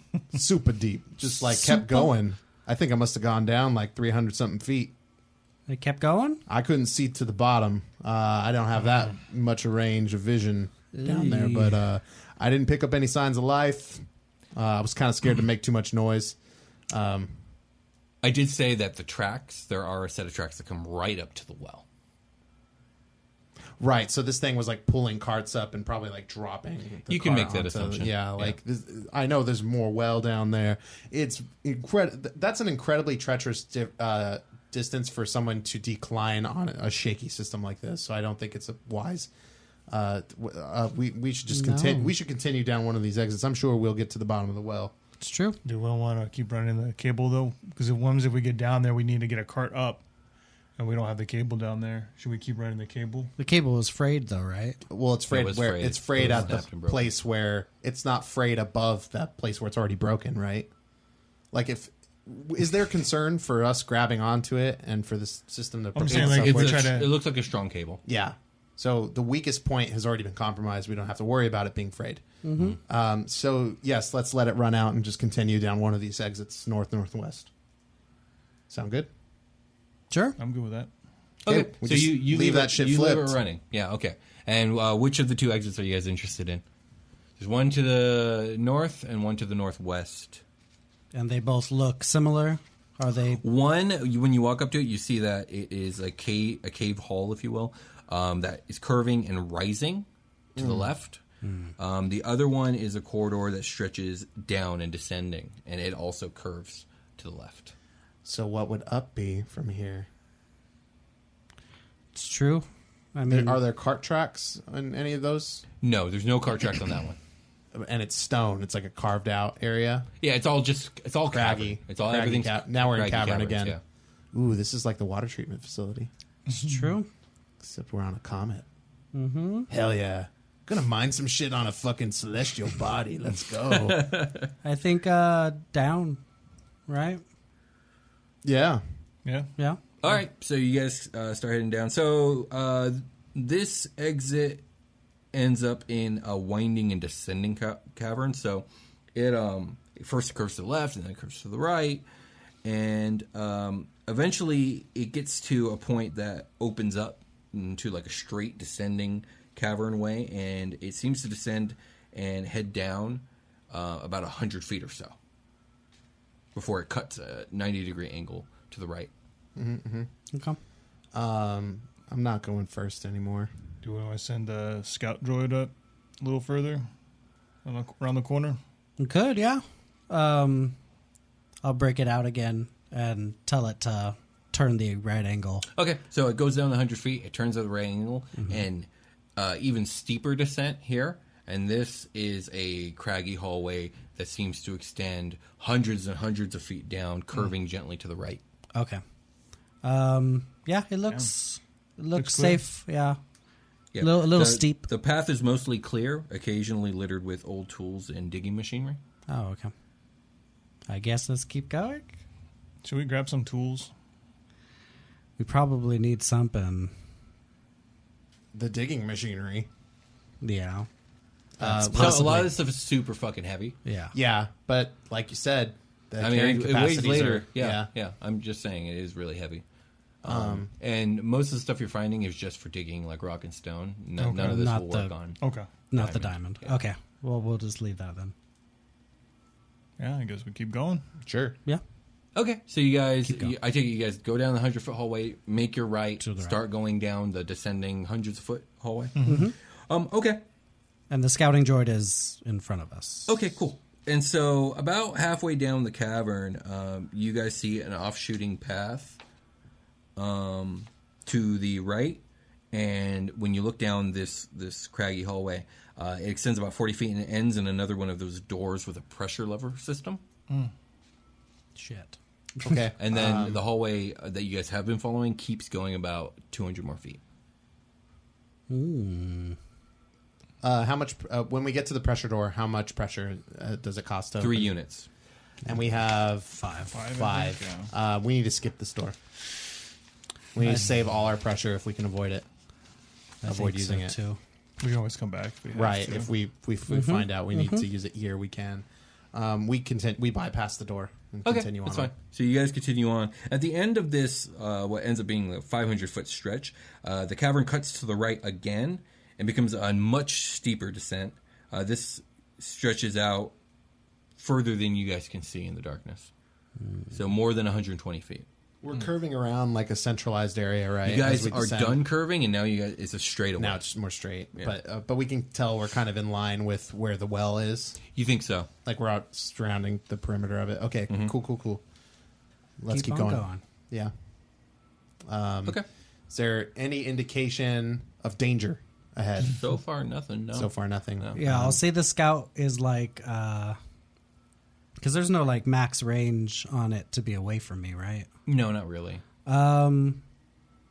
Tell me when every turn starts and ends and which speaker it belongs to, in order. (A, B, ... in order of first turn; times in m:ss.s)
0:00.3-0:04.9 A
0:01.5-0:02.1 B
0:05.7-0:06.4 B
0:06.5-0:16.4 A
0:10.9-0:11.8 B
0:16.9-0:17.4 A
0:18.2-0:21.8 C
0:23.8-0:39.3 A
0:27.1-0:28.6 C
0:39.9-0:44.9 A
0:41.5-0:42.1 B
0:45.2-0:45.6 B
0:45.6-0:50.0 D
0:50.8-0:53.3 D
0:53.4-0:54.8 B
0:54.9-1:00.7 A
0:55.3-0:57.1 C
1:01.5-1:07.1 A
1:05.9-1:07.1 D
1:06.0-1:08.0 C
1:08.0-1:12.2 A
1:12.4-1:12.8 B
1:12.9-1:17.5 A
1:18.7-1:19.1 A
1:20.1-1:20.4 B
1:20.4-1:20.9 D
1:21.4-1:26.6 C
1:21.5-1:23.4 A
1:27.4-1:30.4 C
1:31.1-1:33.4 B
1:33.4-1:41.2 C
1:40.6-1:40.9 A
1:41.4-1:41.7 B
1:41.8-1:47.7 C
1:48.2-1:50.1 A
1:52.1-1:53.6 B
1:53.3-1:55.6 A
1:55.8-1:57.2 C
1:57.7-2:00.1 A
2:00.2-2:03.8 C
2:01.3-2:03.8 A
2:04.3-2:06.1 A
2:06.5-2:07.0 D
2:06.5-2:07.1 B
2:07.6-2:08.6 A
2:09.1-2:09.7 B
2:09.7-2:14.1 A
2:13.6-2:14.5 C
2:14.6-2:16.2 B
2:16.9-2:17.2 B
2:18.4-2:18.8 A
2:19.2-2:19.5 D
2:20.0-2:24.6 C
2:25.3-2:32.0 C
2:32.6-2:45.1 C
2:46.5-2:49.1 C
2:49.6-2:50.1 A
2:50.3-2:50.6 B
2:51.1-2:53.5 A
2:53.8-2:56.9 D
2:57.6-2:58.6 D
2:59.0-3:00.8 B
3:01.6-3:05.7 B
3:05.7-3:18.4 C
3:18.7-3:19.0 B
3:19.8-3:23.2 B
3:22.1-3:22.6 D
3:23.9-3:29.0 C
3:24.0-3:24.8 B
3:29.3-3:29.7 B
3:30.9-3:32.2 B
3:32.8-3:33.9 D
3:35.4-3:36.9 B
3:38.5-3:39.7 A
3:40.4-3:40.9 B
3:41.6-3:42.5 A
3:41.6-3:42.5 B
3:41.9-3:43.8 C
3:43.8-3:44.1 B
3:44.1-3:47.9 A
3:46.2-3:49.6 C
3:50.2-3:55.4 C
3:50.2-3:50.7 A
3:54.2-3:54.6 D
3:54.4-3:55.1 B
3:55.4-3:55.7 D
3:55.9-3:58.3 B
3:55.9-3:56.8 C
4:00.0-4:01.0 D
4:01.2-4:01.6 A
4:02.3-4:10.4 C
4:03.2-4:03.5 B
4:06.2-4:06.6 B
4:09.1-4:09.5 D
4:09.2-4:09.5 B
4:11.1-4:13.3 B
4:13.3-4:19.2 C
4:20.2-4:30.2 C
4:31.8-4:32.8 B
4:32.6-4:33.6 A
4:33.0-4:37.2 C
4:38.7-4:39.6 B
4:40.6-4:44.7 A
4:44.4-4:45.1 C
4:45.7-4:49.2 A
4:46.6-4:47.0 B
4:46.9-4:47.9 D
4:50.5-4:52.4 A
4:50.6-4:50.9 B
4:53.4-4:54.4 B
4:53.4-4:54.2 A
4:54.8-4:56.3 D
4:55.7-5:02.1 A
4:56.9-4:57.9 B
5:01.4-5:13.5 C
5:14.4-5:16.3 C
5:16.8-5:17.1 B
5:17.1-5:18.4 C
5:18.8-5:22.0 A
5:21.0-5:23.8 C
5:23.6-5:28.0 A
5:28.1-5:28.7 C
5:28.8-5:31.8 A
5:31.1-5:31.3 C
5:32.8-5:34.1 A
5:32.9-5:33.6 B
5:35.3-5:39.6 A
5:39.4-5:41.4 C
5:40.5-5:41.8 A
5:41.4-5:43.8 B
5:45.0-5:48.3 B
5:48.4-5:49.2 C
5:49.4-5:50.2 B